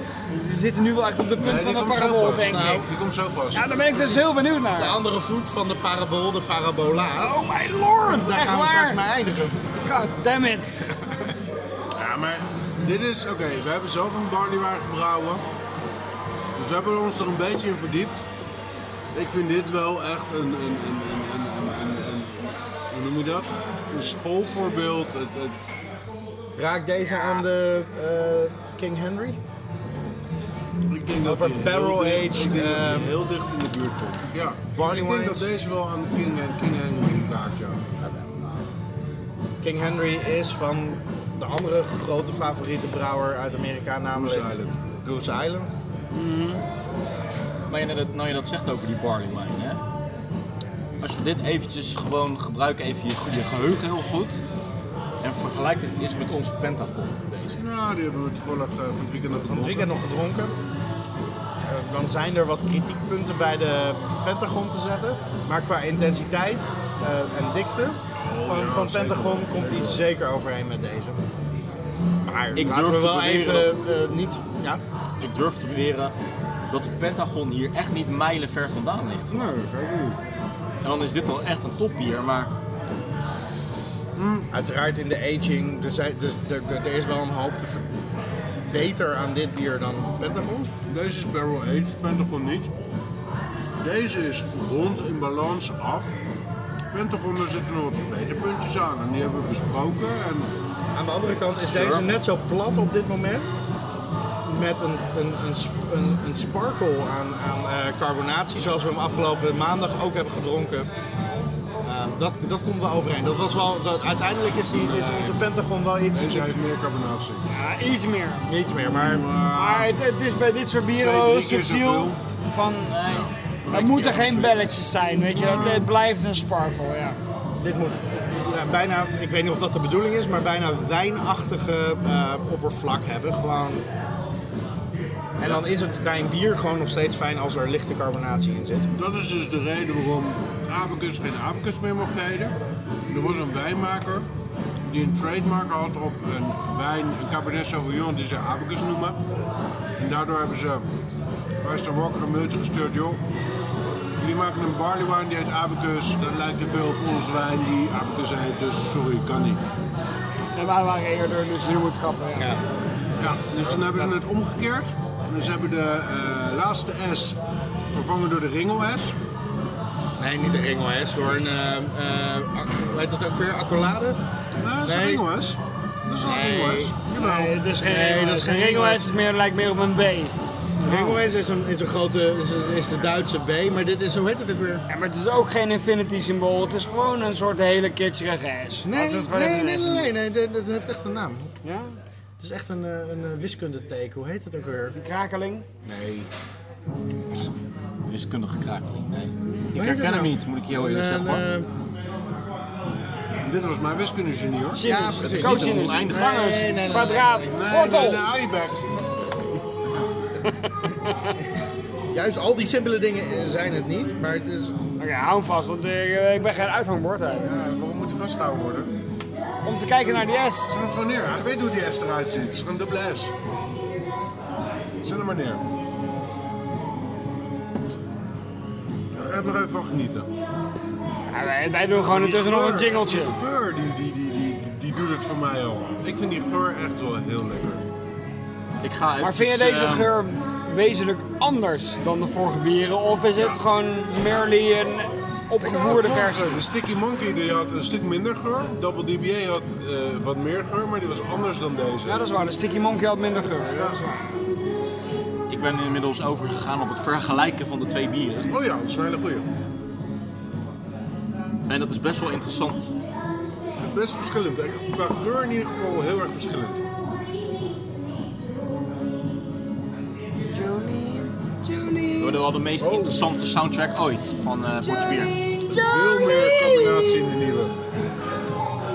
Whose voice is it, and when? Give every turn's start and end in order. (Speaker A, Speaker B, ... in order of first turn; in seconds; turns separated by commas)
Speaker A: 0.3-2.9, Speaker B: 1.4-3.7, Speaker C: 2.5-2.9, Speaker A: 3.5-5.0, Speaker C: 3.9-7.4, Speaker A: 7.2-9.0, Speaker C: 8.1-9.6, Speaker A: 9.8-10.8, Speaker B: 12.0-15.4, Speaker B: 16.6-18.2, Speaker B: 19.1-25.5, Speaker C: 26.6-29.4, Speaker B: 30.9-37.9, Speaker C: 31.2-33.2, Speaker C: 34.8-35.5, Speaker C: 39.6-45.7, Speaker B: 44.1-44.7, Speaker A: 46.1-46.6, Speaker D: 47.7-49.8, Speaker D: 51.0-54.4, Speaker D: 55.2-57.6, Speaker B: 57.6-59.9, Speaker C: 59.3-60.6, Speaker C: 61.7-71.2, Speaker B: 68.2-70.0, Speaker C: 72.2-74.8, Speaker D: 72.5-73.8, Speaker D: 75.2-76.1, Speaker D: 76.7-79.5, Speaker C: 79.4-80.1, Speaker D: 80.8-82.5, Speaker B: 84.2-84.5, Speaker C: 84.5-87.9, Speaker C: 88.7-90.7, Speaker B: 90.9-92.7, Speaker B: 93.8-96.1, Speaker B: 96.9-100.5, Speaker C: 101.0-103.5, Speaker B: 101.6-102.0, Speaker C: 104.5-110.9, Speaker C: 111.8-116.6, Speaker B: 114.7-115.5, Speaker B: 116.1-117.5, Speaker A: 117.5-118.5, Speaker C: 118.5-119.3, Speaker B: 118.8-119.9, Speaker A: 119.5-127.2, Speaker B: 120.9-122.2, Speaker D: 122.9-124.5, Speaker B: 123.8-124.6, Speaker B: 125.3-125.9, Speaker C: 127.6-133.8, Speaker C: 135.4-138.9, Speaker B: 138.9-142.6, Speaker B: 143.1-144.3, Speaker B: 144.9-149.2, Speaker B: 150.0-150.9, Speaker B: 151.6-153.2, Speaker B: 154.2-159.6, Speaker A: 160.6-162.6, Speaker B: 163.2-167.4, Speaker B: 167.9-169.2, Speaker C: 170.2-174.2, Speaker B: 174.6-177.6, Speaker C: 174.8-175.2, Speaker C: 176.2-179.1, Speaker A: 177.2-180.4, Speaker C: 180.8-184.8, Speaker B: 180.9-181.1, Speaker A: 184.9-190.1, Speaker C: 188.8-191.5, Speaker A: 191.6-192.0, Speaker C: 192.4-195.0, Speaker A: 195.0-195.6, Speaker D: 195.8-196.3, Speaker D: 198.1-201.4, Speaker C: 199.7-201.7, Speaker B: 203.4-204.8, Speaker A: 204.7-208.3, Speaker C: 204.8-208.0, Speaker D: 205.2-206.5, Speaker B: 207.3-209.0, Speaker A: 211.1-211.3, Speaker C: 212.1-214.8, Speaker A: 215.0-217.5, Speaker B: 217.4-218.9, Speaker A: 219.6-220.7, Speaker B: 220.7-223.3, Speaker B: 225.0-225.6, Speaker B: 229.1-230.3, Speaker A: 231.3-233.4, Speaker B: 232.0-237.8, Speaker D: 238.8-240.1, Speaker A: 239.2-246.6, Speaker B: 243.3-243.6, Speaker B: 245.6-252.3, Speaker A: 252.1-254.2, Speaker D: 255.5-258.5, Speaker B: 258.5-259.5, Speaker D: 261.7-262.9, Speaker B: 263.8-266.8, Speaker A: 270.5-272.4, Speaker D: 272.2-275.4, Speaker B: 272.8-273.1, Speaker A: 274.8-277.2, Speaker B: 275.7-277.8